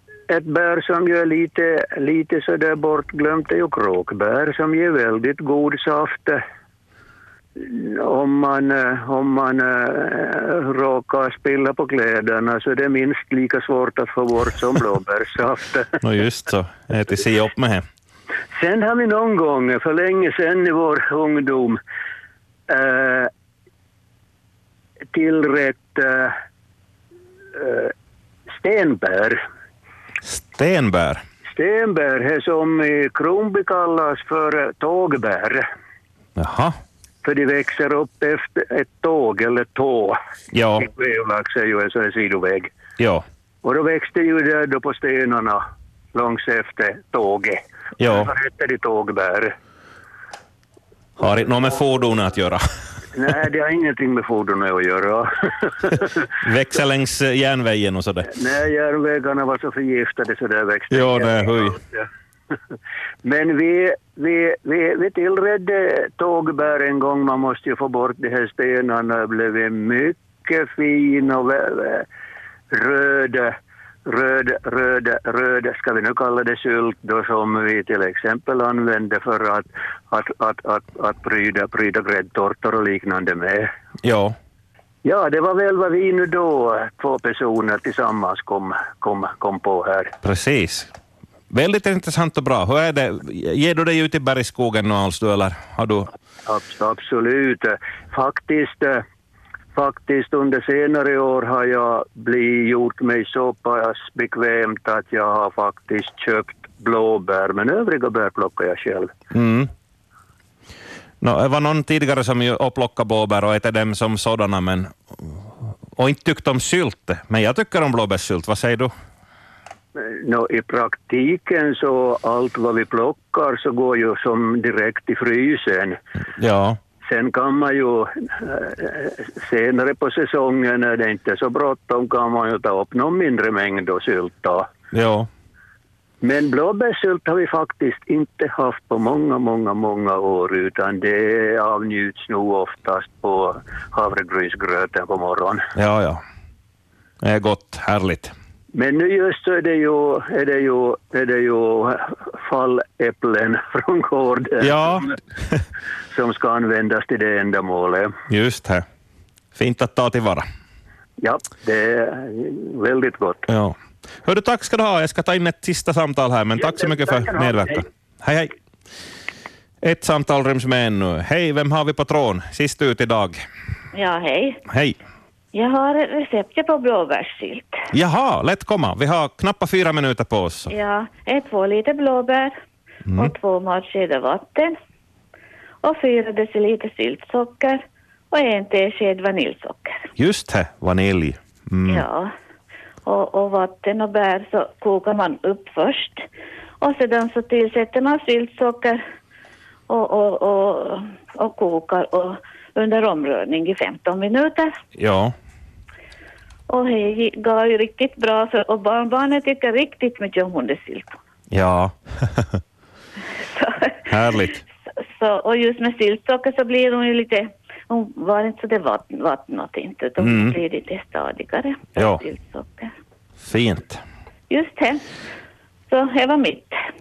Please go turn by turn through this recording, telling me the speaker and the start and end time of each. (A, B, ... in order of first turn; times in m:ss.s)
0:00.3-0:06.4 A
0:07.6-0:16.0 A
0:16.0-0:17.8 B
0:18.6-0:21.8 A
0:22.7-0:23.3 A
0:25.1-0:26.3 A
0:27.6-0:27.9 A
0:28.6-0:29.4 A
0:30.2-0:31.2 B
0:31.5-0:35.6 A
0:36.4-0:36.8 B
0:37.2-0:40.2 A
0:40.5-0:40.9 B
0:40.8-0:42.7 A
0:43.0-0:43.2 B
0:43.6-0:45.6 A
0:46.1-0:49.5 A
0:48.0-0:48.3 B
0:51.2-0:52.6 B
0:53.1-0:56.3 A
0:56.4-0:58.3 B
0:58.3-1:02.1 A
1:00.9-1:01.8 B
1:03.2-1:12.1 A
1:12.7-1:13.5 A
1:14.1-1:23.7 A
1:24.0-1:24.4 B
1:25.0-1:30.1 A
1:30.2-1:30.9 B
1:31.5-1:36.1 B
1:36.5-1:39.0 A
1:39.8-1:49.1 A
1:49.3-1:49.7 B
1:51.2-1:58.9 B
2:00.0-2:06.0 A
2:06.4-2:06.8 B
2:07.0-2:14.7 A
2:14.9-2:15.3 B
2:16.2-2:25.6 A
2:25.8-2:26.2 B
2:27.2-2:28.3 B
2:28.8-2:35.1 A
2:34.6-2:35.6 B
2:36.1-2:38.1 A
2:38.3-2:38.8 B
2:39.6-2:40.4 B
2:41.2-2:43.4 A
2:43.5-2:48.5 B
2:46.6-2:47.8 A
2:49.8-2:53.4 B
2:53.9-2:54.6 C
2:54.7-2:55.0 B
2:55.5-2:57.8 C
2:57.9-3:00.7 B
3:00.7-3:02.6 C
3:03.1-3:03.3 B
3:03.2-3:04.8 C
3:05.8-3:10.1 C
3:10.2-3:12.1 B
3:11.9-3:12.3 C
3:13.1-3:16.3 C
3:16.8-3:19.0 C
3:19.9-3:24.8 C
3:25.0-3:25.3 B
3:26.7-3:31.2 C
3:31.5-3:32.6 B
3:33.6-3:33.9 C
3:34.1-3:34.6 B
3:35.2-3:42.9 C
3:40.2-3:40.6 B
3:41.9-3:42.2 B
3:43.4-3:44.0 B
3:44.5-3:45.0 C
3:45.9-3:46.8 C